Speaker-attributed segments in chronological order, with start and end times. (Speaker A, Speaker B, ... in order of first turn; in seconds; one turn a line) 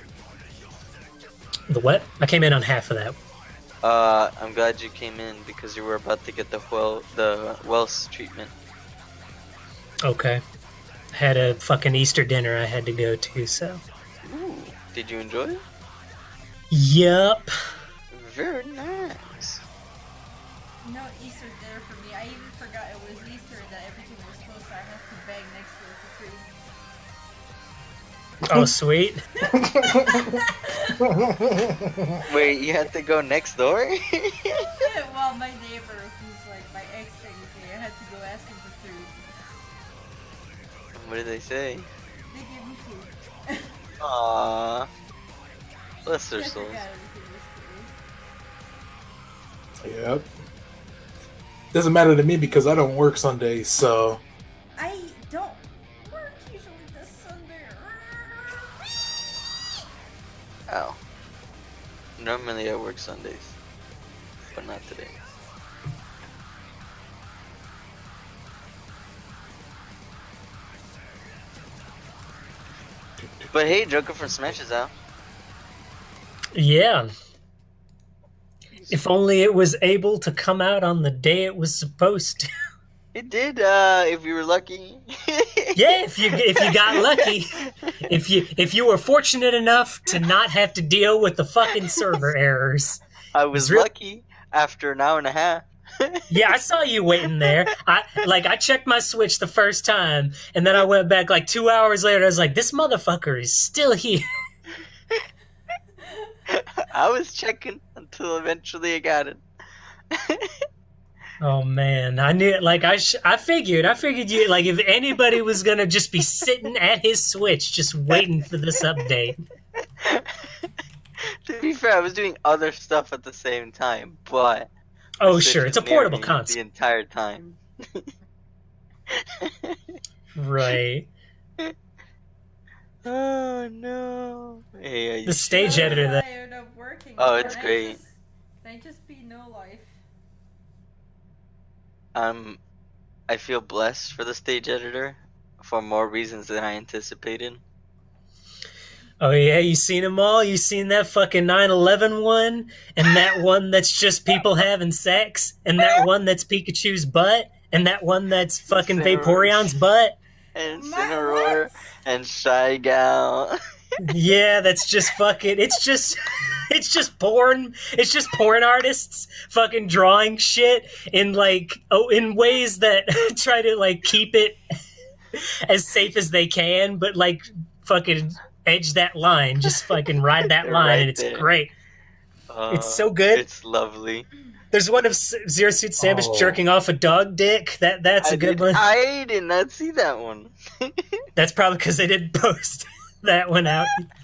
Speaker A: 1.7-3.1
Speaker B: 3.8-8.5
Speaker A: 10.0-10.4
Speaker A: 11.1-13.8
Speaker B: 14.2-15.6
Speaker A: 16.7-17.5
Speaker B: 18.1-19.6
Speaker C: 20.8-26.5
Speaker A: 28.5-29.2
Speaker D: 29.6-30.3
Speaker C: 29.8-31.0
Speaker B: 32.2-34.5
Speaker C: 34.8-39.5
Speaker B: 40.9-41.9
Speaker C: 42.2-43.8
Speaker B: 44.0-44.9
Speaker B: 46.0-46.8
Speaker C: 46.3-48.0
Speaker D: 49.8-50.3
Speaker D: 51.7-54.2
Speaker C: 54.8-58.7
Speaker B: 60.7-61.0
Speaker B: 62.2-63.6
Speaker B: 64.5-65.2
Speaker B: 73.5-74.9
Speaker A: 76.5-77.1
Speaker B: 78.7-79.0
Speaker A: 78.9-82.5
Speaker B: 83.1-85.7
Speaker A: 85.7-93.0
Speaker B: 86.5-87.0
Speaker B: 93.3-96.2
Speaker A: 93.5-93.9
Speaker A: 96.3-104.3
Speaker B: 106.5-109.4
Speaker B: 110.1-110.4
Speaker A: 111.4-119.4
Speaker B: 120.0-120.4
Speaker B: 121.5-124.7
Speaker A: 125.2-126.6
Speaker B: 125.3-128.0
Speaker B: 129.4-129.8
Speaker A: 130.3-131.1
Speaker B: 133.0-136.0
Speaker A: 135.2-136.2
Speaker C: 135.6-140.0
Speaker B: 137.2-138.0
Speaker B: 142.1-142.6
Speaker B: 143.3-147.6
Speaker A: 149.2-160.2
Speaker B: 158.7-159.7
Speaker B: 160.6-163.5
Speaker C: 160.6-161.8
Speaker A: 164.0-174.6
Speaker A: 175.7-181.7
Speaker B: 180.5-181.5
Speaker B: 182.5-184.3
Speaker A: 182.7-183.4
Speaker A: 184.7-188.9
Speaker D: 186.0-186.6
Speaker B: 188.2-190.9
Speaker A: 191.3-194.1